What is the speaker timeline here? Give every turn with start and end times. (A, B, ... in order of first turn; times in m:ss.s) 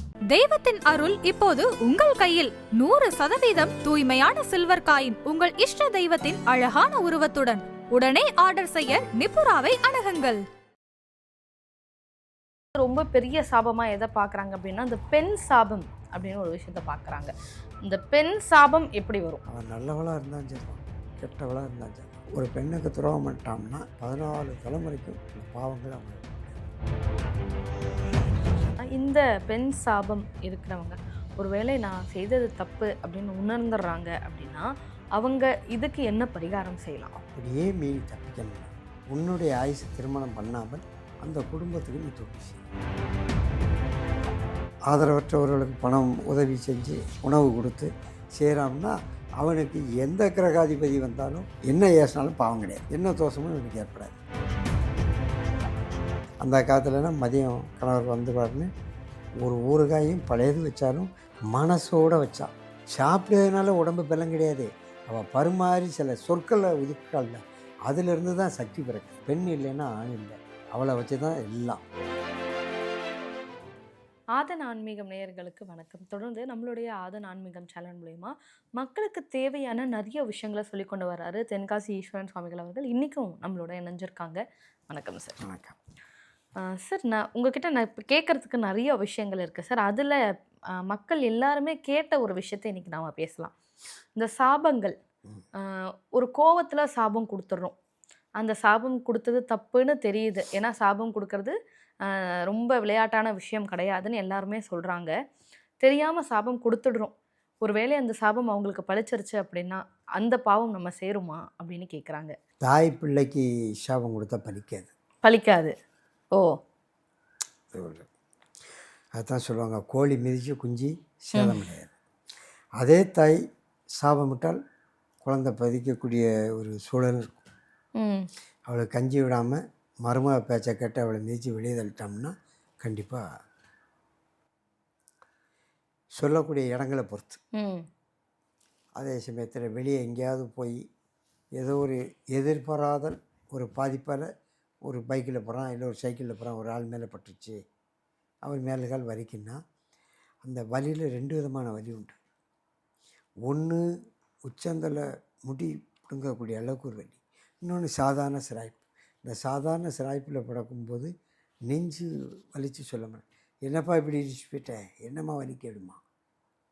0:00.3-0:10.4 A
0:12.8-0:17.3 B
0:17.8-0:19.4 B
0:19.5-0:26.6 C
0:28.9-0:34.6 B
0:35.2-0:37.1 B
0:37.1-0:42.7 C
0:44.9-0:54.2 C
0:56.4-0:58.7 C
0:59.4-1:11.8 C
1:14.4-1:25.4 B
1:25.4-1:25.8 C
1:26.6-1:30.2 B
1:30.8-1:33.5 B
1:34.1-1:34.9 B
1:36.1-1:37.7 B
1:38.4-1:41.5 B
1:42.1-1:45.1 B
1:45.8-1:52.3 B
1:52.6-1:54.9 C
1:55.2-1:55.7 B
1:57.7-1:58.1 C
1:59.2-2:01.9 C
2:01.3-2:01.6 B
2:02.8-2:03.4 C
2:04.0-2:04.6 C
2:05.2-2:07.4 C
2:08.0-2:08.3 B
2:08.7-2:13.2 C
2:16.2-2:17.4 C
2:17.6-2:17.8 B
2:19.0-2:20.8 C
2:21.6-2:24.3 C
2:24.8-2:27.6 C
2:28.4-2:29.6 C
2:30.4-2:32.2 C
2:33.4-2:33.8 C
2:34.4-2:41.1 C
2:41.7-2:46.0 C